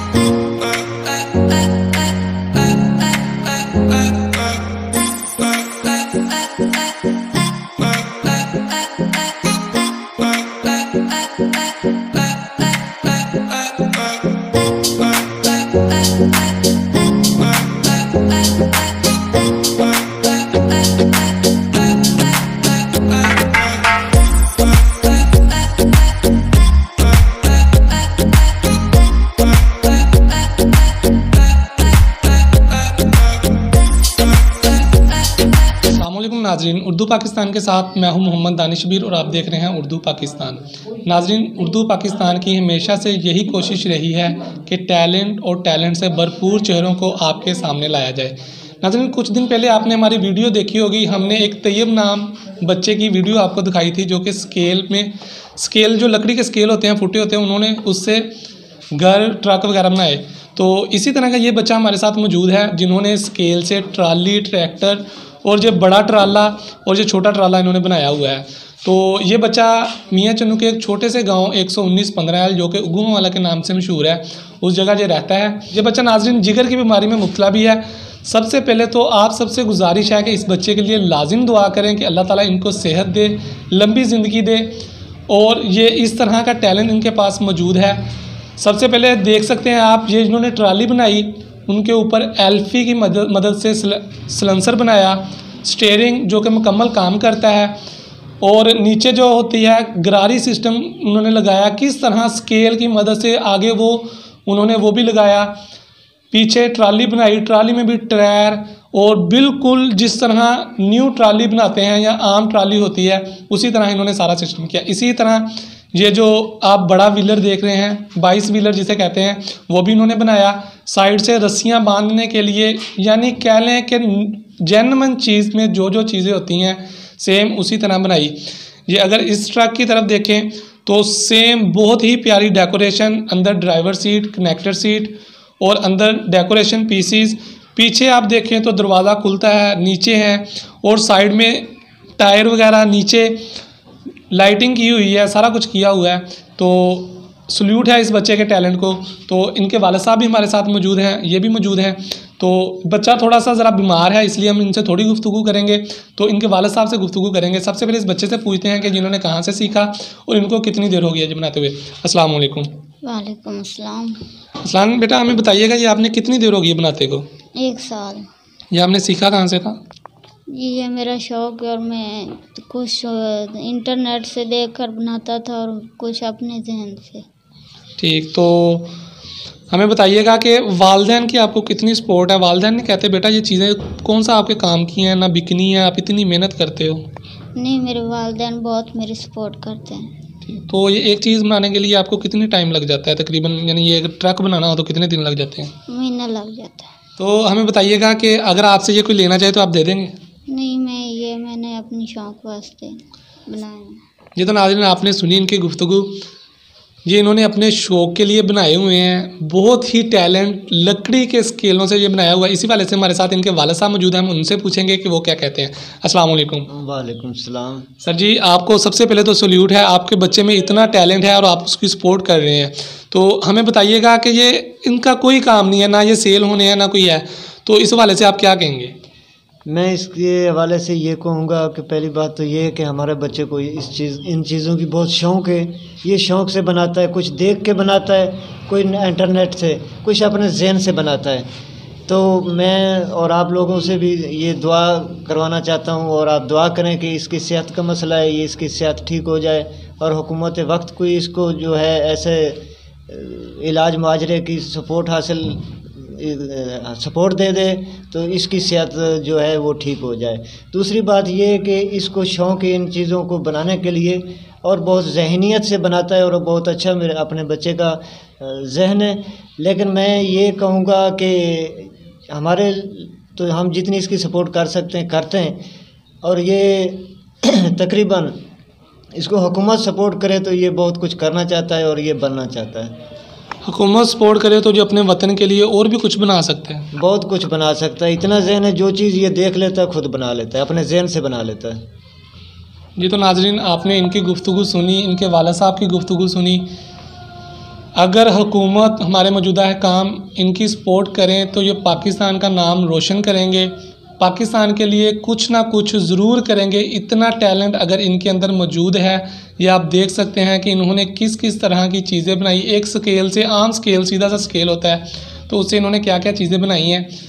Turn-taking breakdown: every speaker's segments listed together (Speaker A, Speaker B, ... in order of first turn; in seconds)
Speaker A: 35.9-58.3, 58.9-97.8, 98.4-105.5, 106.3-143.4, 144.3-162.7, 164.6-167.3, 168.7-169.8, 178.0-178.9, 179.7-187.1, 190.4-195.7, 197.2-200.1, 204.3-206.2, 207.1-216.7, 218.0-228.9, 283.6-286.9, 293.0-296.7, 297.9-317.1
Speaker B: 163.0-164.2, 167.6-168.3, 170.5-177.2, 187.6-190.2, 195.9-196.9, 200.5-204.0
Speaker C: 216.7-217.9, 229.7-241.5, 242.1-275.6, 276.2-278.4, 279.1-283.0, 286.9-291.8